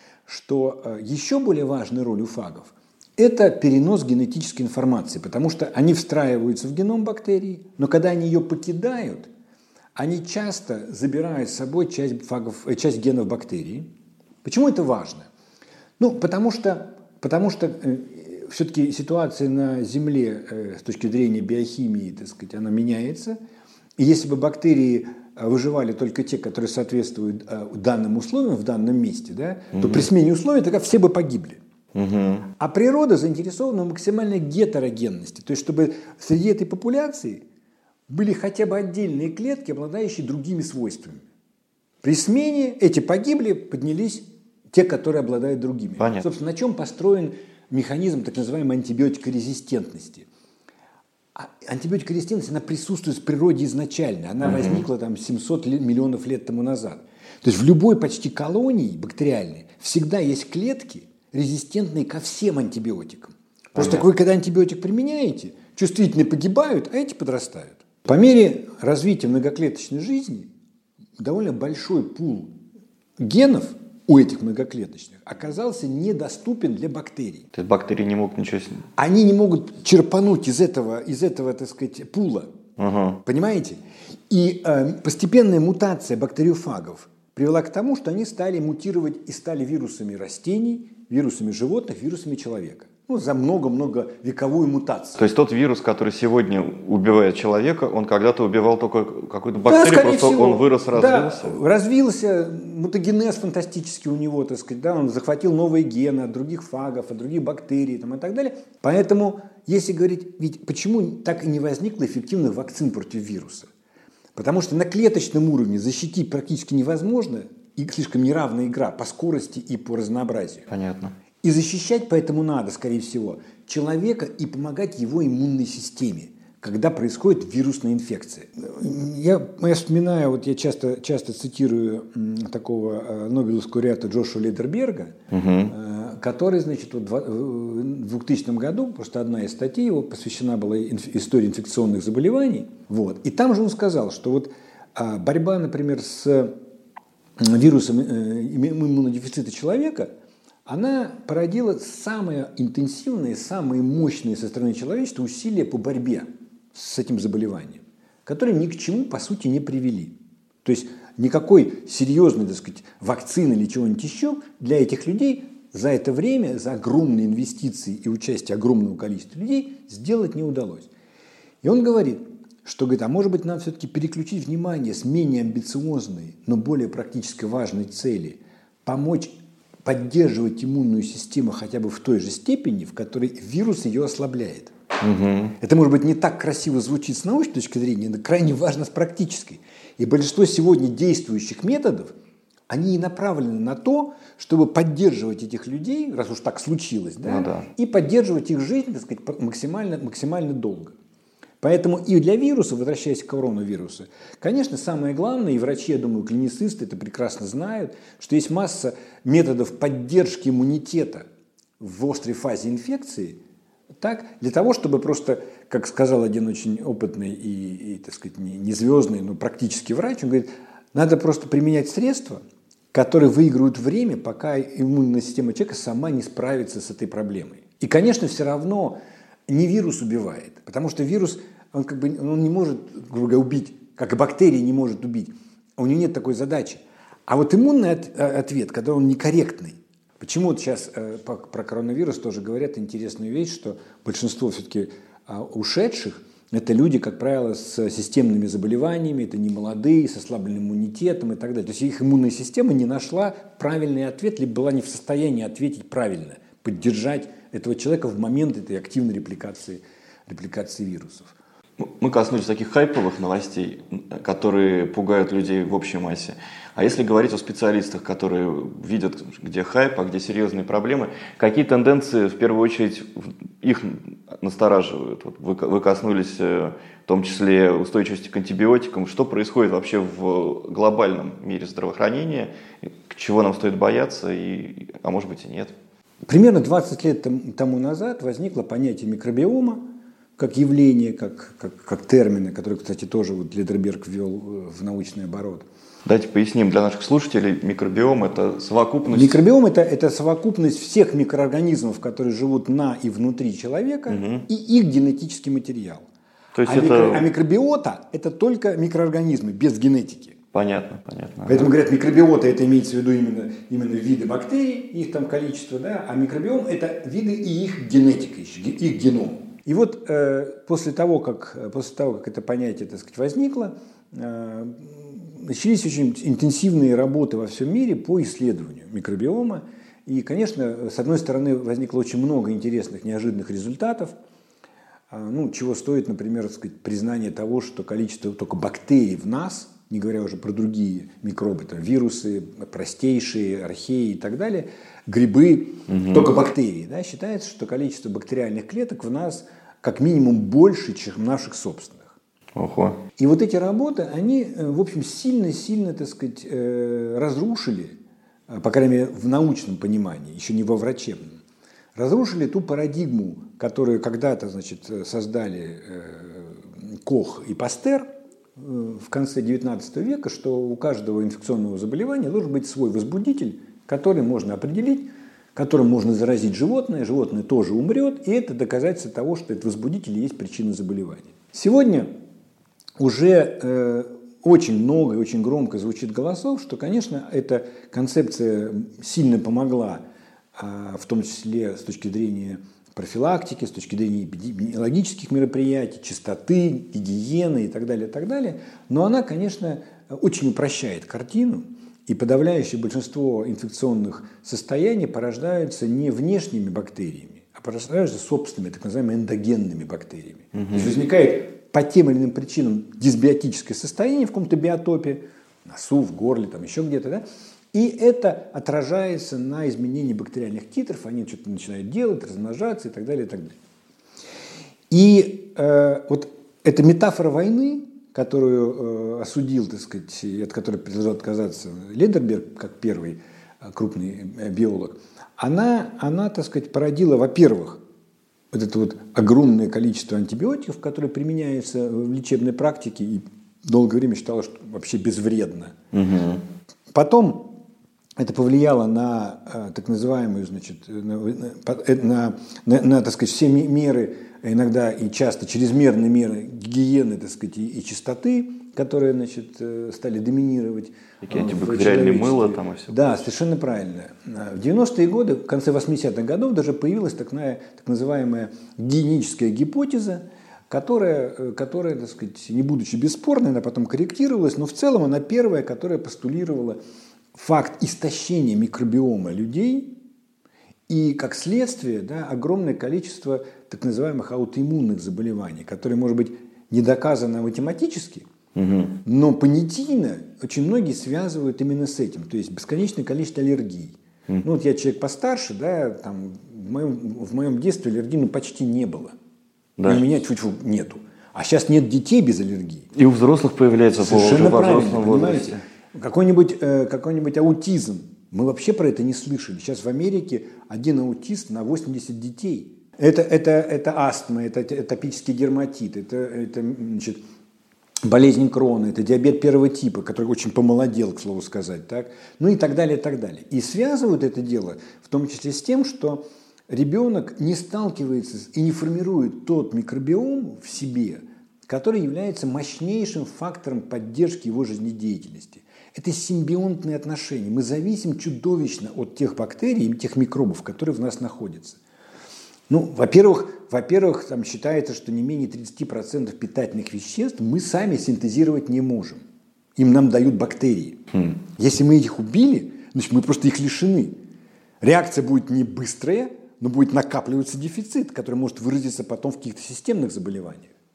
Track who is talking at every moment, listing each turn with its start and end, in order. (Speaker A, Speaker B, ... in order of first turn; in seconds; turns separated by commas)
Speaker A: 0.3-9.3, Speaker A: 10.0-13.9, Speaker A: 14.4-15.3, Speaker A: 16.0-23.4, Speaker A: 24.0-31.6, Speaker B: 29.8-30.1, Speaker B: 31.9-32.5, Speaker A: 32.6-37.4, Speaker A: 38.1-41.2, Speaker A: 42.0-50.3, Speaker B: 46.0-46.2, Speaker A: 51.4-70.5, Speaker B: 54.4-54.9, Speaker B: 63.8-64.0, Speaker A: 71.2-72.5, Speaker A: 73.2-77.5, Speaker B: 77.5-78.8, Speaker A: 79.0-82.5, Speaker B: 82.8-83.2, Speaker A: 83.2-83.8, Speaker A: 84.3-95.2, Speaker B: 95.2-101.6, Speaker A: 99.6-113.7, Speaker A: 114.4-120.7, Speaker B: 120.7-121.1, Speaker A: 121.4-135.2, Speaker B: 135.3-135.7, Speaker A: 135.7-146.6, Speaker A: 147.4-150.1, Speaker A: 150.7-170.9, Speaker A: 171.6-179.3, Speaker A: 179.8-184.7, Speaker B: 185.0-185.6, Speaker A: 185.6-192.1, Speaker A: 192.7-200.9, Speaker B: 197.2-197.7, Speaker A: 201.6-211.2, Speaker A: 211.8-213.4, Speaker A: 214.0-222.4, Speaker A: 222.9-261.3, Speaker B: 261.8-285.7, Speaker A: 286.3-295.7, Speaker B: 296.1-299.4, Speaker A: 299.1-306.1, Speaker B: 304.1-304.4, Speaker B: 306.6-307.2, Speaker A: 306.6-310.4, Speaker B: 310.5-311.7, Speaker A: 311.5-334.1, Speaker A: 335.1-352.2, Speaker B: 345.9-346.3, Speaker B: 352.6-353.0, Speaker A: 353.2-357.9, Speaker A: 358.5-361.4, Speaker A: 361.9-382.1, Speaker A: 383.0-390.0, Speaker A: 390.6-423.6, Speaker B: 410.6-410.9, Speaker A: 424.9-437.8, Speaker A: 438.5-445.8, Speaker B: 445.9-446.4, Speaker A: 446.9-447.6, Speaker A: 448.2-476.8, Speaker B: 461.2-463.1, Speaker A: 477.4-479.9, Speaker A: 480.9-488.2, Speaker B: 488.6-489.0, Speaker A: 489.0-499.1, Speaker B: 499.8-500.0, Speaker A: 499.9-502.9, Speaker B: 502.9-505.6, Speaker A: 504.0-517.2, Speaker A: 518.0-541.8, Speaker A: 542.7-549.2, Speaker A: 549.8-554.1, Speaker A: 554.8-560.7